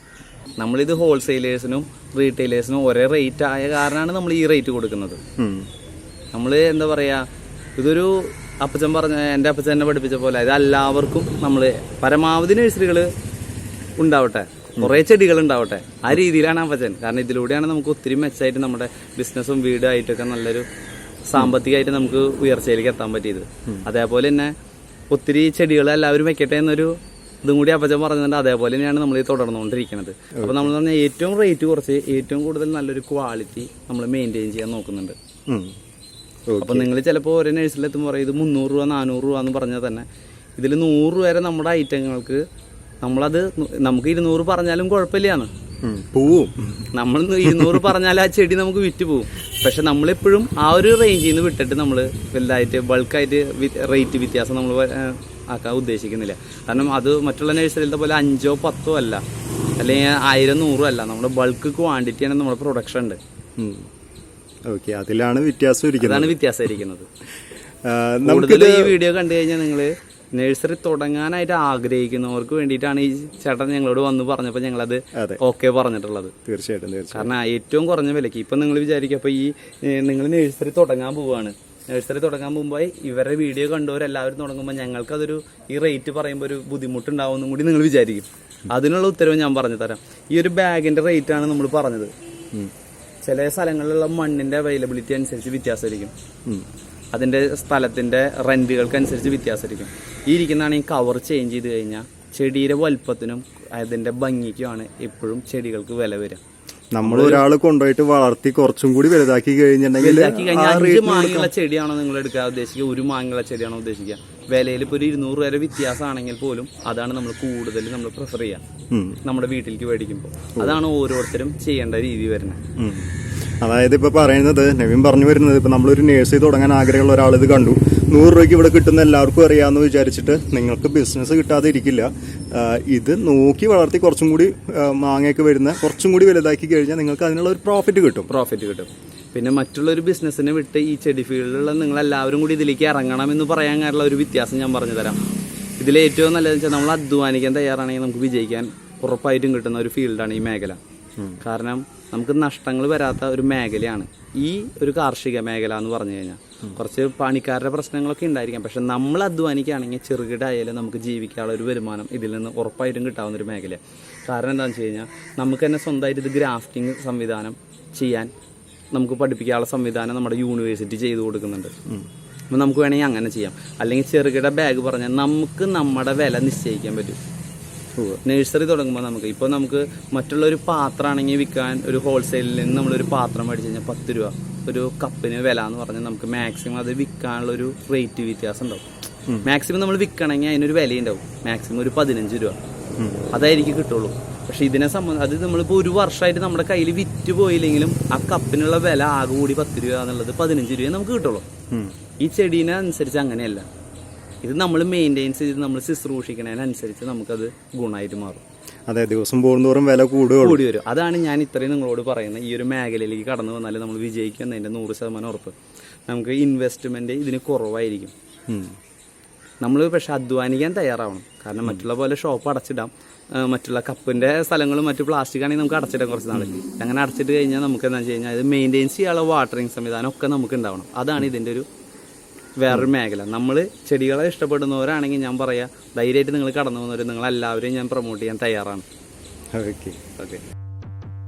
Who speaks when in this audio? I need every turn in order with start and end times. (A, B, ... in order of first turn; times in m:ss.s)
0:00.6-0:05.2 A
0:05.4-0:05.7 B
0:06.3-0:07.2 A
0:07.8-0:13.1 A
0:14.0-0:20.6 A
0:21.3-0:24.5 A
0:25.1-0:35.2 A
0:30.4-0:30.7 B
0:35.5-0:35.7 B
0:36.5-0:36.9 B
0:36.6-0:40.1 A
0:40.6-0:42.4 A
0:43.0-0:45.5 A
0:45.8-0:46.9 B
0:46.9-0:59.2 A
0:47.5-0:47.8 B
0:59.8-1:03.2 A
1:03.6-1:03.9 B
1:04.7-1:06.4 B
1:06.0-1:07.1 A
1:07.8-1:09.0 B
1:08.2-1:16.4 A
1:15.1-1:15.4 B
1:16.4-1:17.3 B
1:17.1-1:32.1 A
1:33.2-1:36.1 A
1:37.1-1:46.4 A
1:46.9-1:51.5 B
1:47.0-1:47.5 A
1:50.0-1:58.6 A
1:58.9-1:59.2 B
1:59.2-2:02.6 A
2:02.8-2:18.3 B
2:18.3-2:25.2 A
2:25.8-2:30.8 A
2:31.4-2:48.3 A
2:48.9-2:51.7 A
2:52.5-2:57.2 A
2:58.2-3:08.8 A
3:09.4-3:12.6 A
3:13.0-3:13.2 B
3:13.3-3:21.4 A
3:22.2-3:23.7 A
3:24.4-3:28.4 A
3:28.9-3:30.6 B
3:30.4-3:35.5 A
3:36.1-3:38.1 A
3:38.5-3:38.7 B
3:39.6-3:51.7 A
3:52.6-3:58.8 A
3:59.5-4:00.0 B
4:00.2-4:00.4 A